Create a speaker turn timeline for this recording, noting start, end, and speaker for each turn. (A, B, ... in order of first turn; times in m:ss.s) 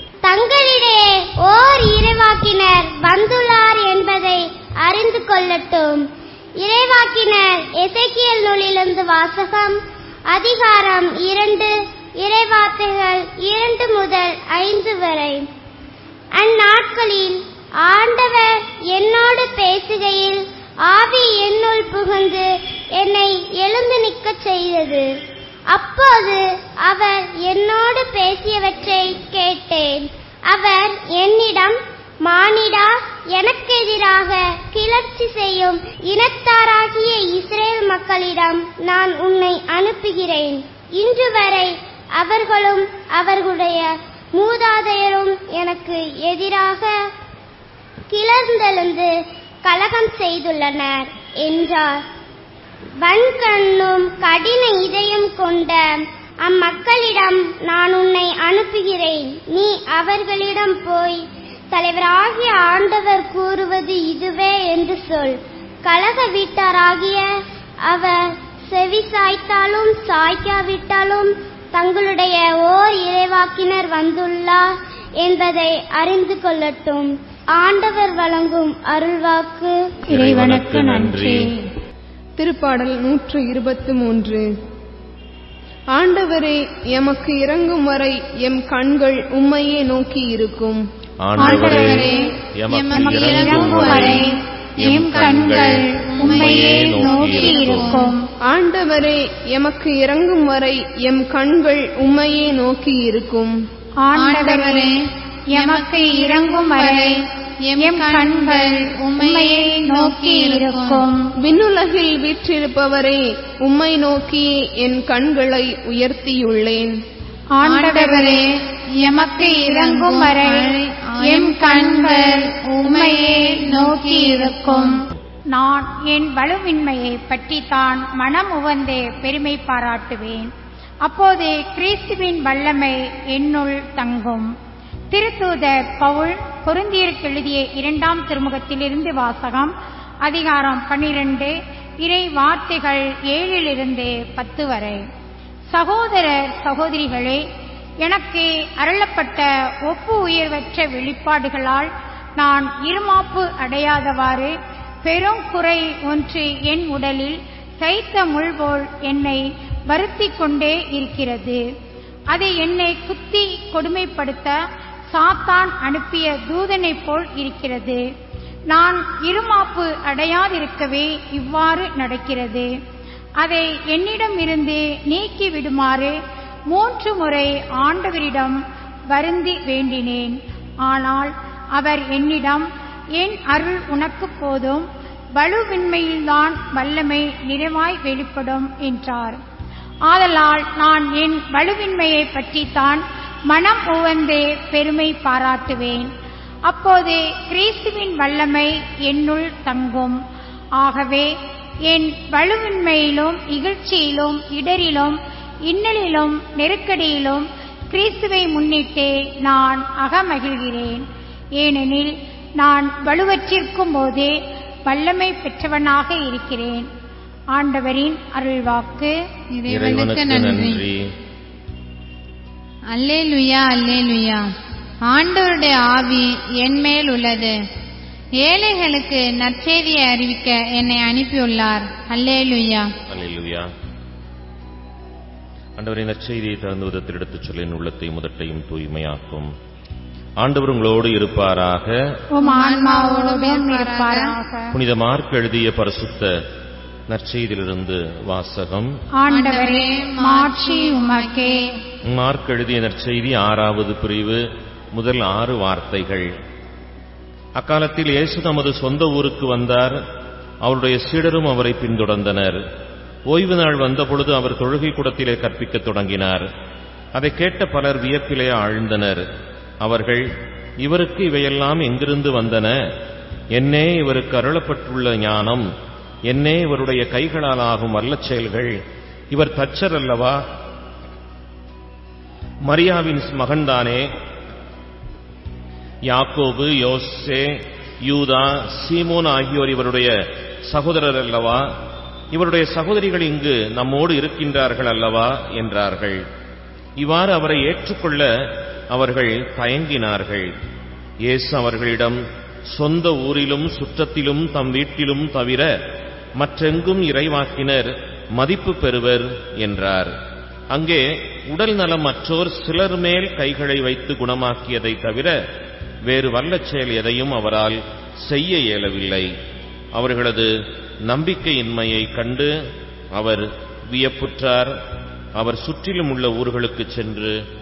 0:00.2-0:06.1 A
0:06.6-0:15.5 A
0:16.3-0:25.1 A
0:25.7-0:46.9 A
0:48.1-0:49.1 A
0:49.6-0:52.0 A
0:53.0-1:07.3 A
1:07.8-1:19.8 A
1:20.1-1:21.5 B
1:20.1-1:21.5 C
1:22.4-1:24.4 D
1:25.9-1:30.8 D
1:31.2-1:34.2 B
1:31.4-1:32.2 C
1:31.4-1:31.7 D
1:31.8-1:38.2 E
1:32.9-1:34.3 C
1:34.8-1:38.0 B
1:34.8-1:38.2 C
1:38.4-1:43.5 D
1:44.0-1:44.9 C
1:44.1-1:45.0 E
1:45.5-1:51.0 E
1:45.5-1:47.2 C
1:47.8-1:51.2 C
1:51.4-1:56.9 D
1:57.6-1:58.4 C
1:57.6-1:58.5 E
1:59.0-2:05.0 E
1:59.1-2:05.0 C
2:05.5-2:10.5 C
2:11.0-2:14.5 C
2:15.1-2:19.7 C
2:20.2-2:25.0 C
2:25.7-2:27.4 C
2:28.0-2:31.9 C
2:32.4-2:34.5 C
2:35.0-2:41.6 C
2:42.3-2:44.6 C
2:45.1-2:48.0 C
2:48.7-2:52.7 C
2:53.4-2:56.1 C
2:56.7-2:58.6 C
2:59.1-3:02.7 C
3:03.2-3:04.8 C
3:05.4-3:09.4 C
3:10.1-3:16.1 C
3:16.7-3:20.2 C
3:20.8-3:21.3 C
3:21.9-3:25.2 C
3:25.7-3:31.0 C
3:31.6-3:34.3 C
3:34.9-3:36.9 C
3:37.5-3:39.1 C
3:39.5-3:40.8 E
3:39.7-3:41.1 B
3:42.9-3:44.5 E
3:45.0-3:47.6 E
3:48.4-3:52.9 E
3:53.1-3:53.7 B
3:55.8-3:59.5 B
4:00.4-4:02.0 B
4:02.3-4:04.7 C
4:02.4-4:04.4 E
4:04.7-4:06.4 B
4:07.1-4:08.9 B
4:09.2-4:11.6 C
4:09.3-4:11.6 E
4:12.1-4:14.4 B
4:14.9-4:16.3 B
4:17.6-4:20.0 B
4:20.6-4:22.6 B
4:23.3-4:26.4 B
4:27.2-4:29.2 B
4:29.8-4:30.2 B
4:30.8-4:32.7 B
4:33.5-4:35.7 B
4:36.3-4:38.8 B
4:39.3-4:40.4 B
4:42.6-4:44.1 B
4:46.1-4:50.1 B
4:50.7-4:51.7 B
4:52.3-4:56.2 B
4:57.0-4:58.3 B
4:58.9-5:00.5 B
5:01.3-5:05.7 B
5:06.4-5:10.1 B
5:10.7-5:15.4 B
5:16.0-5:19.3 B
5:19.9-5:20.5 B
5:21.0-5:22.5 B
5:23.1-5:24.7 B
5:25.4-5:27.4 B